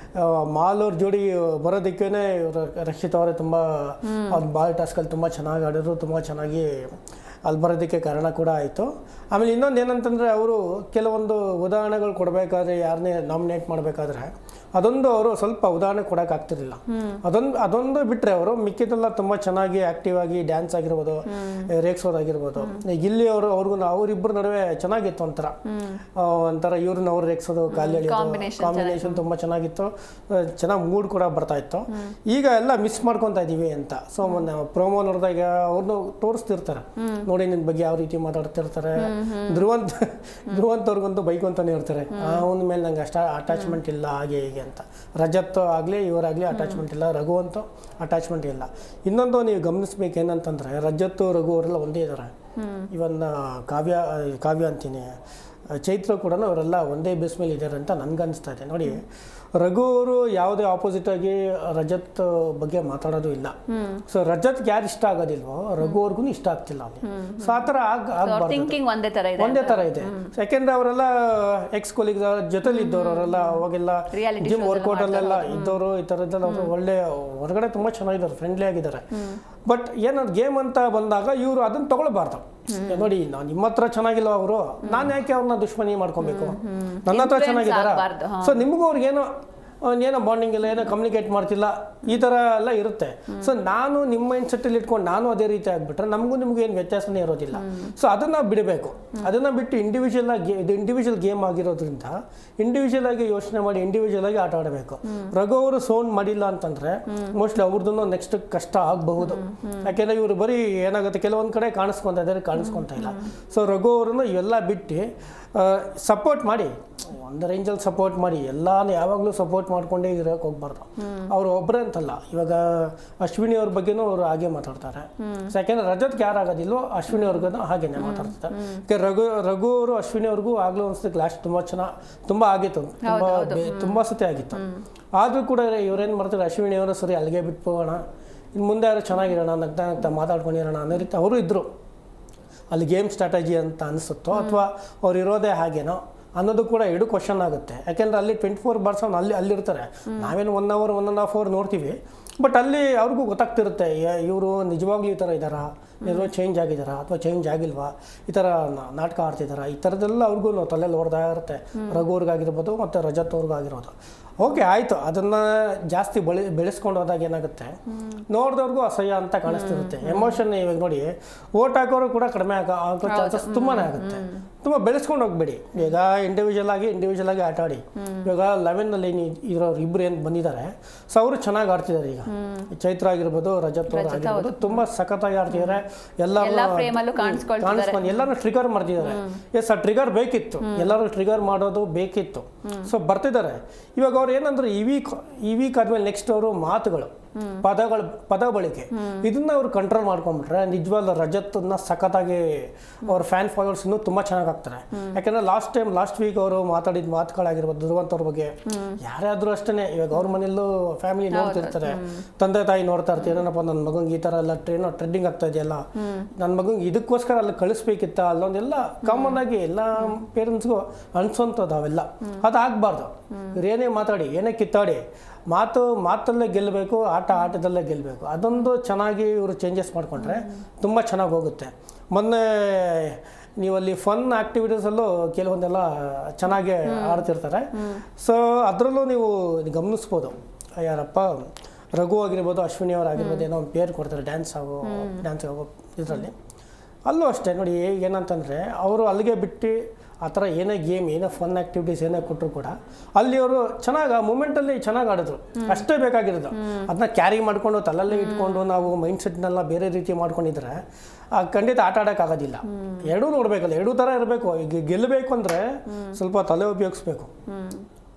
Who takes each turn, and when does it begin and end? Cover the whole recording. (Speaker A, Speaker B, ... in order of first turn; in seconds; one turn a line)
Speaker A: 0.1-25.6
Speaker B: 4.1-4.4
Speaker B: 16.9-17.2
Speaker B: 21.3-21.7
Speaker B: 22.6-22.8
Speaker B: 25.7-26.0
Speaker A: 26.2-52.3
Speaker B: 27.7-29.2
Speaker B: 37.0-37.3
Speaker B: 39.0-39.6
Speaker B: 42.1-42.5
Speaker B: 43.5-43.8
Speaker B: 46.5-46.8
Speaker B: 52.6-52.9
Speaker A: 52.9-55.1
Speaker A: 55.8-59.0
Speaker A: 59.6-63.5
Speaker B: 63.7-64.0
Speaker A: 64.1-68.8
Speaker B: 67.0-67.7
Speaker B: 68.2-70.3
Speaker A: 69.4-79.1
Speaker B: 72.6-75.8
Speaker B: 76.4-76.7
Speaker A: 79.7-89.3
Speaker B: 82.7-83.1
Speaker B: 84.9-85.1
Speaker B: 86.2-88.6
Speaker A: 89.8-134.6
Speaker B: 97.5-97.9
Speaker B: 109.2-109.9
Speaker B: 112.6-113.3
Speaker B: 121.0-121.3
Speaker B: 125.2-125.5
Speaker B: 127.1-127.4
Speaker B: 128.0-128.8
Speaker B: 133.0-134.8
Speaker A: 135.2-138.0
Speaker A: 138.6-141.7
Speaker A: 142.7-167.8
Speaker B: 144.3-144.6
Speaker B: 150.1-150.3
Speaker B: 156.0-156.3
Speaker B: 161.8-162.0
Speaker B: 167.9-168.2
Speaker A: 168.3-246.3
Speaker B: 169.5-170.4
Speaker B: 173.1-174.4
Speaker B: 178.0-178.3
Speaker B: 182.3-182.7
Speaker B: 183.9-184.8
Speaker B: 185.5-185.8
Speaker B: 186.4-188.2
Speaker B: 189.0-189.4
Speaker B: 190.6-191.0
Speaker B: 192.7-192.9
Speaker B: 197.4-197.7
Speaker B: 198.9-199.3
Speaker B: 204.9-205.2
Speaker B: 208.7-209.0
Speaker B: 211.3-212.2
Speaker B: 216.0-216.3
Speaker B: 219.0-219.4
Speaker B: 223.3-223.6
Speaker B: 230.2-230.5
Speaker B: 236.9-237.3
Speaker B: 243.2-243.5
Speaker B: 244.8-245.2
Speaker A: 247.1-260.8
Speaker B: 255.6-255.9
Speaker B: 256.5-256.9
Speaker B: 258.1-258.8
Speaker A: 261.4-267.3
Speaker B: 262.7-263.1
Speaker B: 265.9-266.2
Speaker B: 267.5-267.9